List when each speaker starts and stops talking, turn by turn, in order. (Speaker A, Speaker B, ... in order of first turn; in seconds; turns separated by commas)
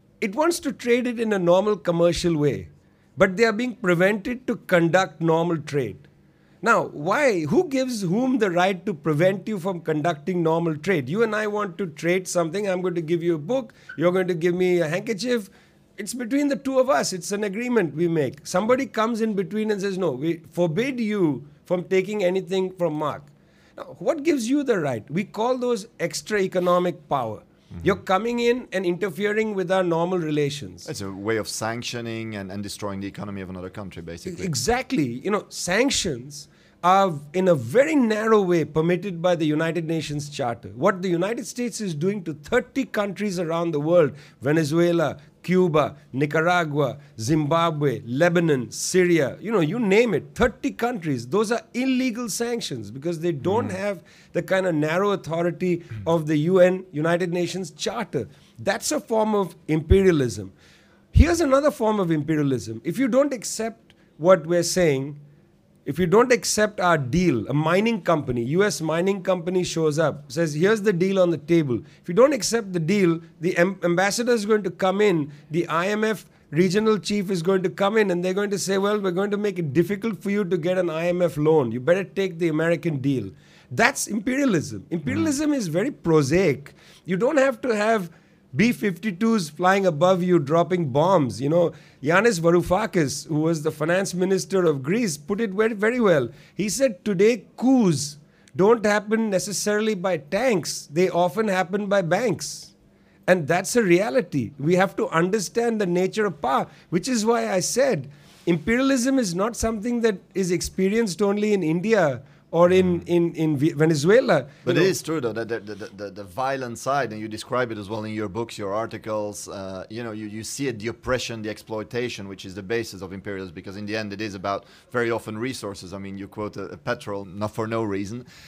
Speaker A: 0.2-6.0, Speaker A: 6.6-30.9, Speaker B: 30.8-34.5, Speaker A: 34.2-60.5, Speaker B: 53.4-53.7, Speaker A: 61.1-65.2, Speaker A: 65.8-102.7, Speaker A: 103.3-114.9, Speaker B: 114.6-128.2